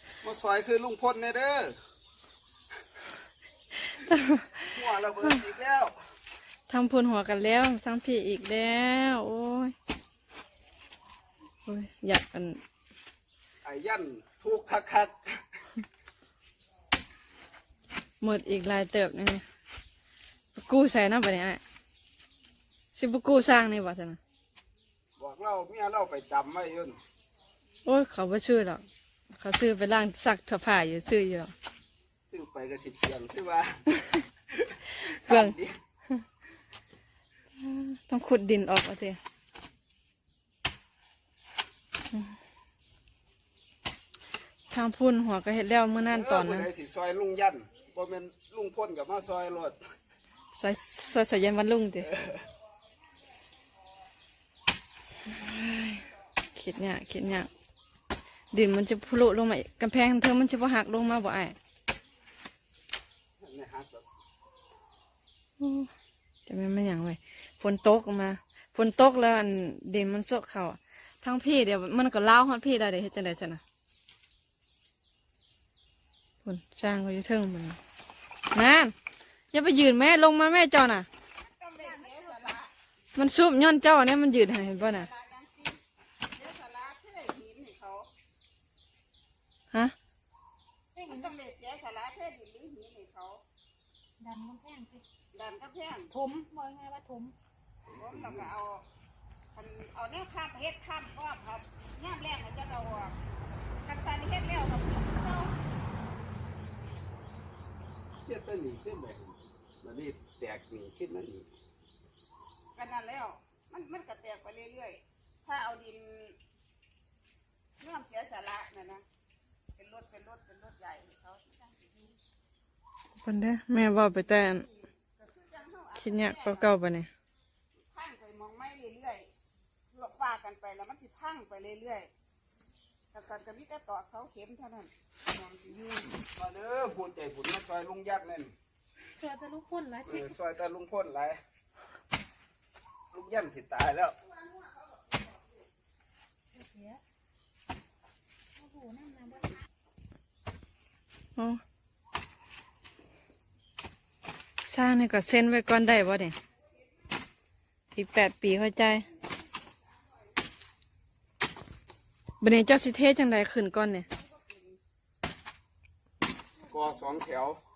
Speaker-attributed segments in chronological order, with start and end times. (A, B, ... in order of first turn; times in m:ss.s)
0:00.2-0:01.8 A
0:04.1-0:04.6 B
0:04.6-0:05.9 A
0:06.7-0:09.7 B
0:11.7-0:12.6 B
0:13.6-0:15.6 A
0:18.2-0:19.4 B
0:20.6-0:21.6 B
0:22.9-0:24.2 B
0:25.2-0:27.0 A
0:27.8-0:31.5 B
0:32.3-0:35.8 A
0:35.2-0:35.5 B
0:37.6-0:39.2 B
0:44.7-0:46.7 B
0:46.0-0:49.8 A
0:50.5-0:52.1 B
0:52.0-0:52.4 A
0:55.3-0:57.5 B
0:58.5-1:01.6 B
1:03.4-1:04.0 A
1:05.6-1:05.9 B
1:06.5-1:13.6 B
1:16.4-1:17.8 B
1:18.5-1:18.9 B
1:19.5-1:21.1 B
1:21.4-1:22.7 C
1:21.8-1:22.6 D
1:23.1-1:25.1 B
1:24.4-1:28.1 C
1:30.9-1:31.3 D
1:31.0-1:33.4 C
1:34.2-1:35.0 D
1:35.3-1:36.1 C
1:36.1-1:37.3 D
1:37.9-1:38.5 A
1:37.9-1:38.8 C
1:39.5-1:43.1 C
1:43.8-1:45.6 C
1:48.2-1:51.5 A
1:52.8-1:56.4 C
1:57.8-1:59.0 C
1:59.8-2:02.2 C
2:03.2-2:04.6 B
2:04.1-2:06.7 C
2:06.0-2:07.1 B
2:07.9-2:09.3 C
2:09.9-2:12.1 C
2:13.1-2:16.1 C
2:16.1-2:18.5 A
2:19.0-2:20.3 D
2:20.0-2:21.4 A
2:23.1-2:24.2 A
2:24.4-2:25.0 C
2:26.5-2:27.0 D
2:28.6-2:29.6 D
2:31.4-2:31.6 B
2:34.6-2:36.4 B
2:37.9-2:39.1 B
2:42.4-2:44.0 B
2:44.1-2:44.8 C
2:46.6-2:47.2 C
2:46.7-2:47.6 A